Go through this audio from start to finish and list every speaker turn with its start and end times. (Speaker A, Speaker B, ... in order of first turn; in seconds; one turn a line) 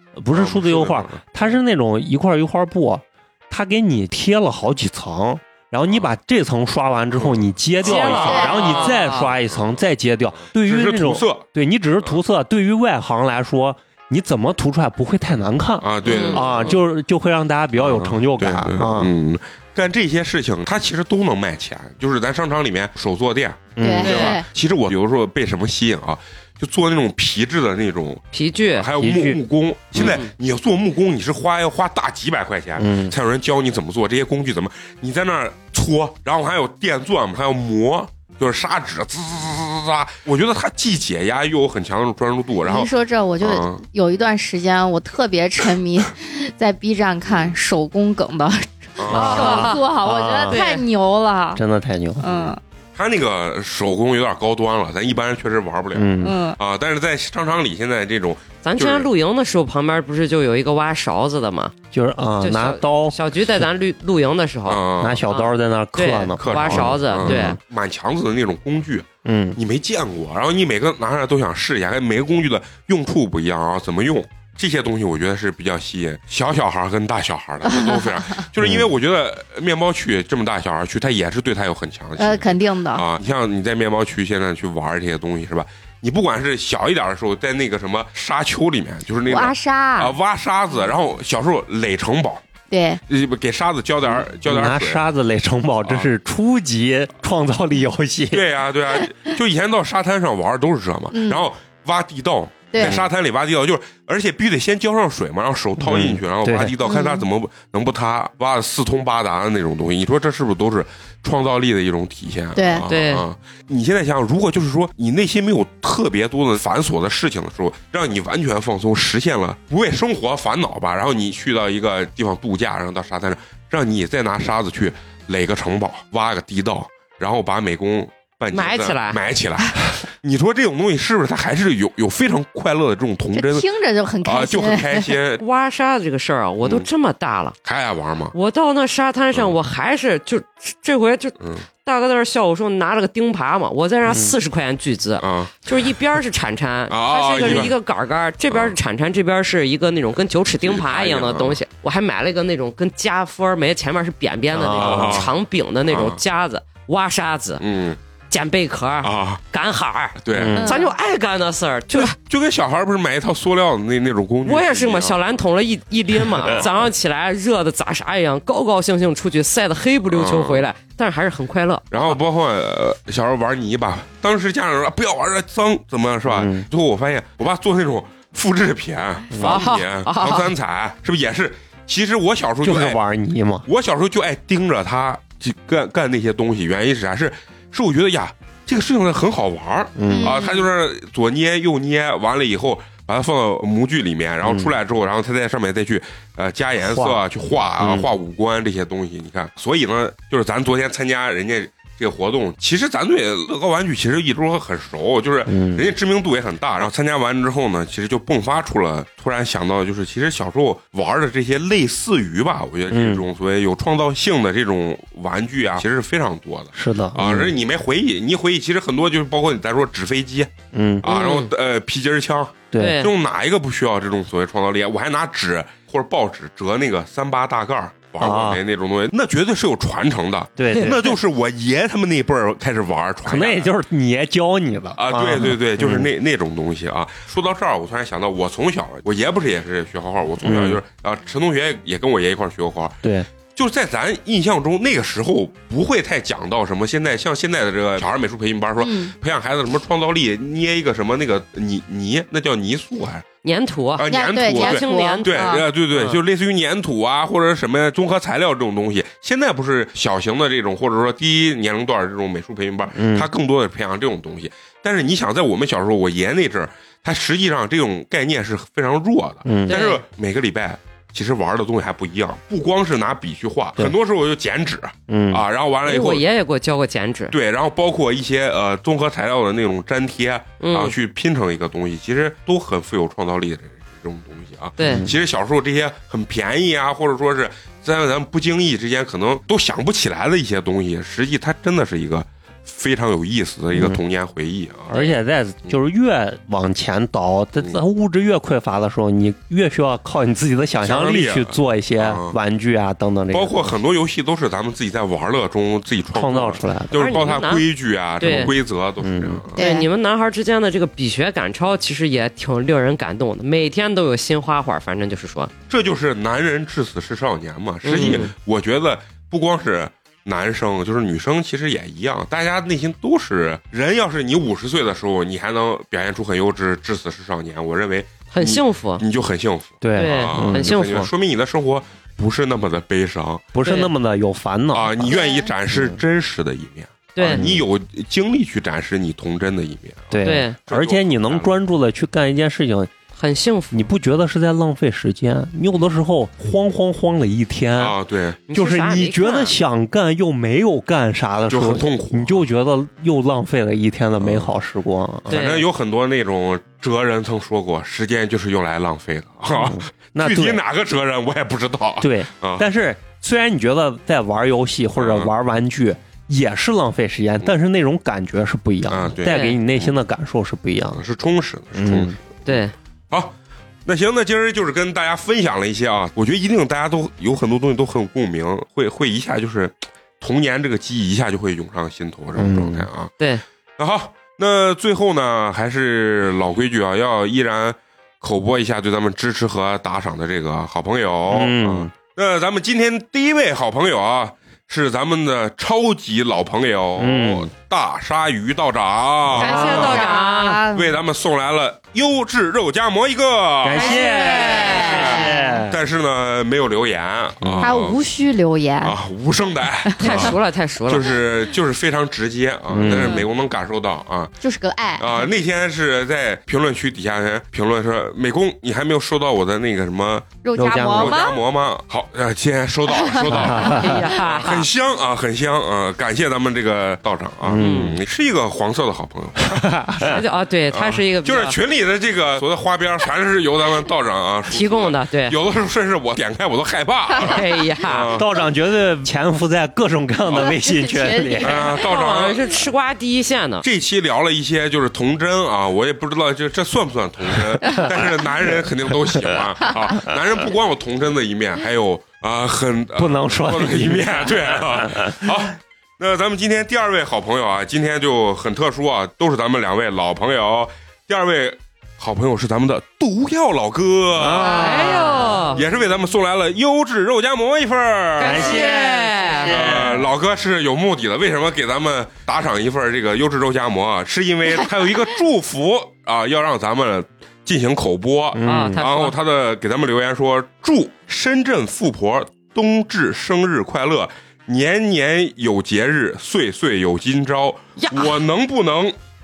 Speaker A: 0.2-19.1
Speaker B: 0.3-1.2
Speaker B: 7.2-8.9
Speaker C: 7.8-9.3
Speaker D: 8.3-8.5
Speaker B: 10.5-11.5
Speaker B: 15.8-16.8
Speaker C: 16.0-16.7
Speaker B: 17.8-28.2
Speaker A: 23.8-24.1
Speaker D: 23.8-24.4
Speaker C: 24.0-24.4
Speaker C: 28.3-28.9
Speaker B: 28.7-43.8
Speaker A: 29.0-29.4
Speaker C: 29.9-30.3
Speaker A: 32.8-33.1
Speaker D: 42.6-51.6
Speaker B: 49.0-49.8
Speaker C: 49.1-49.8
Speaker A: 49.1-50.6
Speaker C: 50.5-50.8
Speaker A: 51.5-52.3
Speaker D: 52.2-52.6
Speaker B: 53.0-59.1
Speaker A: 55.9-56.4
Speaker D: 56.2-56.6
Speaker C: 58.6-61.7
Speaker A: 61.9-63.6
Speaker C: 62.4-67.6
Speaker B: 64.7-65.2
Speaker A: 65.0-67.6
Speaker B: 66.4-92.4
Speaker A: 69.2-69.6
Speaker D: 77.7-78.1
Speaker A: 78.6-78.9
Speaker D: 82.2-83.0
Speaker D: 89.3-90.2
Speaker D: 92.7-93.0
Speaker B: 93.1-95.0
Speaker A: 94.0-98.4
Speaker B: 98.3-133.7
Speaker D: 101.1-101.5
Speaker D: 102.7-103.0
Speaker A: 105.8-106.8
Speaker D: 106.8-107.2
Speaker D: 112.5-112.8
Speaker C: 112.9-113.2
Speaker C: 128.5-129.2
Speaker D: 133.3-135.2
Speaker B: 134.2-135.4
Speaker C: 135.4-137.6
Speaker B: 136.6-136.9
Speaker B: 137.6-138.3
Speaker C: 138.3-157.6
Speaker A: 144.1-144.4
Speaker B: 145.2-145.6
Speaker B: 146.9-147.7
Speaker B: 148.5-148.8
Speaker B: 150.6-151.6
Speaker A: 154.5-155.3
Speaker B: 154.8-155.3
Speaker B: 155.9-156.2
Speaker B: 157.6-158.0
Speaker C: 158.3-162.2
Speaker B: 159.0-159.4
Speaker B: 160.2-160.7
Speaker A: 160.3-160.8
Speaker D: 160.6-160.9
Speaker B: 161.9-165.2
Speaker C: 164.4-172.2
Speaker B: 166.3-166.7
Speaker B: 170.1-170.6
Speaker B: 171.9-183.0
Speaker A: 176.3-176.7
Speaker A: 179.3-179.6
Speaker C: 179.4-180.5
Speaker A: 182.6-183.7
Speaker B: 183.7-233.7
Speaker A: 190.0-190.4
Speaker D: 190.1-190.6
Speaker A: 194.4-194.7
Speaker A: 196.8-197.2
Speaker A: 197.8-198.1
Speaker A: 205.5-205.9
Speaker A: 212.9-213.2
Speaker A: 216.7-217.5
Speaker A: 220.7-221.1
Speaker C: 221.1-221.5
Speaker A: 222.7-223.0
Speaker C: 222.8-223.1
Speaker A: 228.2-228.6
Speaker A: 230.6-231.1
Speaker A: 233.2-236.1
Speaker B: 235.0-243.0
Speaker A: 240.4-240.8
Speaker A: 243.0-243.3
Speaker B: 243.5-253.3
Speaker D: 248.8-249.1
Speaker C: 253.4-256.2
Speaker B: 254.0-276.2
Speaker D: 254.1-255.6
Speaker A: 262.9-263.3
Speaker A: 269.4-269.8
Speaker C: 269.7-270.0
Speaker A: 275.1-275.4
Speaker C: 275.9-277.4
Speaker B: 277.3-294.9
Speaker C: 280.6-280.9
Speaker C: 284.8-285.1
Speaker A: 284.8-285.1
Speaker A: 293.7-294.0
Speaker C: 294.9-295.2
Speaker A: 294.9-303.8
Speaker B: 300.8-302.4
Speaker B: 303.3-309.6
Speaker A: 306.1-307.0
Speaker C: 306.9-307.7
Speaker C: 308.2-308.5
Speaker A: 309.0-309.4
Speaker C: 309.5-315.5
Speaker D: 309.6-309.9
Speaker B: 315.7-333.5
Speaker C: 317.8-318.3
Speaker A: 318.0-318.3
Speaker C: 328.3-329.0
Speaker A: 329.8-331.0
Speaker C: 329.9-331.1
Speaker A: 333.6-336.0
Speaker C: 333.6-333.9
Speaker B: 334.7-341.5
Speaker D: 335.1-335.5
Speaker C: 337.1-337.5
Speaker A: 337.3-337.6
Speaker A: 340.1-342.9
Speaker C: 340.2-340.6
Speaker C: 343.2-343.9
Speaker A: 343.7-348.0
Speaker B: 347.8-348.4
Speaker C: 348.5-349.6
Speaker A: 348.5-355.4
Speaker B: 351.5-352.4
Speaker B: 354.2-354.5
Speaker C: 355.3-355.7
Speaker B: 355.3-362.7
Speaker A: 359.6-360.6
Speaker A: 362.0-371.0
Speaker B: 365.0-365.3
Speaker B: 368.9-369.9
Speaker C: 369.2-369.6
Speaker B: 370.9-372.5
Speaker A: 371.7-372.1
Speaker C: 372.5-372.7
Speaker B: 373.1-383.1
Speaker A: 382.4-382.9
Speaker B: 383.8-400.1
Speaker A: 391.3-391.9
Speaker A: 397.0-397.5
Speaker C: 399.3-400.7
Speaker A: 399.4-400.0
Speaker D: 399.4-400.9
Speaker B: 400.7-408.0
Speaker A: 403.6-405.8
Speaker C: 403.8-405.2
Speaker D: 403.9-405.5
Speaker A: 407.4-407.7
Speaker D: 407.6-409.0
Speaker B: 408.8-414.3
Speaker D: 409.9-410.2
Speaker C: 410.0-411.2
Speaker A: 412.7-413.2
Speaker D: 412.9-413.2
Speaker D: 414.4-415.3
Speaker B: 415.0-429.7
Speaker D: 420.4-421.4
Speaker A: 420.6-421.2
Speaker D: 423.0-424.0
Speaker A: 423.3-424.1
Speaker C: 423.6-424.7
Speaker A: 427.4-428.0
Speaker C: 427.6-428.0
Speaker A: 429.4-430.2
Speaker C: 430.0-431.6
Speaker B: 430.7-438.4
Speaker C: 434.5-435.4
Speaker C: 437.2-438.1
Speaker A: 438.1-441.7
Speaker D: 440.3-441.7
Speaker B: 441.4-442.5
Speaker C: 441.6-443.6
Speaker B: 443.6-468.7
Speaker A: 447.6-448.0
Speaker A: 449.1-449.4
Speaker A: 453.0-455.3
Speaker A: 464.2-465.6
Speaker C: 464.4-465.6
Speaker C: 468.2-470.0
Speaker A: 468.2-470.1
Speaker B: 469.5-489.0
Speaker A: 478.3-478.9
Speaker C: 478.4-479.2
Speaker C: 487.8-488.2